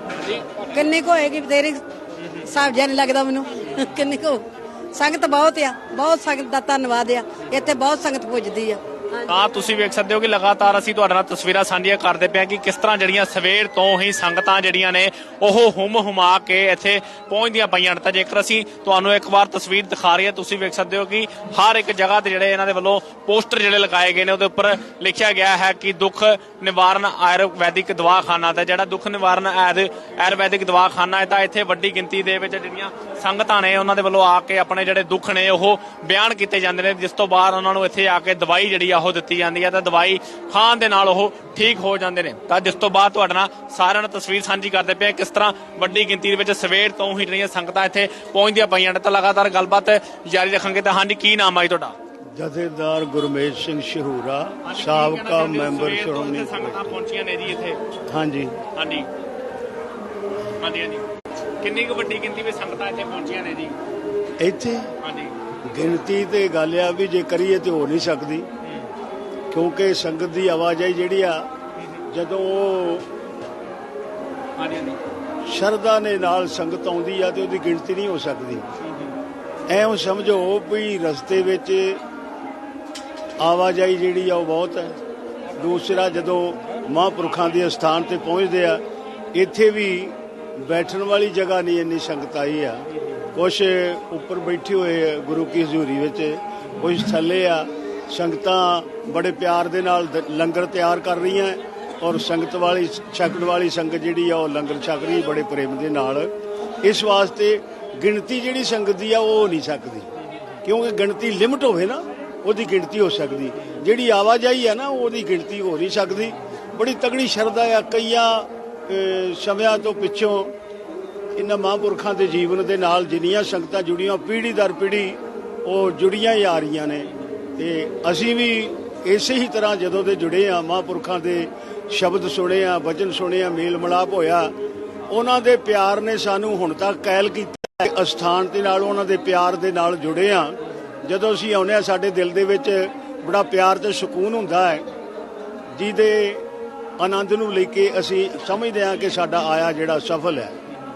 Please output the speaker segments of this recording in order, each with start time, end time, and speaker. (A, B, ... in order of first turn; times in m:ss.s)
0:00.2-0:00.5 A
0:00.6-0:01.8 B
0:02.2-0:02.4 A
0:02.4-0:09.4 B
0:09.3-0:52.0 A
0:52.4-0:57.0 C
0:54.6-0:57.8 A
0:58.1-0:58.5 C
0:58.8-0:59.1 A
1:00.6-1:01.0 A
1:01.6-1:03.8 A
1:04.4-1:04.9 C
1:05.0-1:05.4 A
1:05.7-1:08.5 C
1:08.6-1:08.9 A
1:09.5-1:11.5 C
1:12.1-1:13.1 C
1:14.6-1:15.0 A
1:15.5-1:18.6 C
1:18.8-1:19.2 A
1:19.7-1:22.0 C
1:23.4-1:25.0 C
1:25.6-1:28.8 C
1:29.3-1:32.8 C
1:33.4-1:46.3 C
1:46.8-1:50.1 C
1:50.6-2:00.5 C
2:01.4-2:14.5 C
2:15.1-2:24.9 C
2:25.8-2:26.5 C
2:27.0-2:30.6 C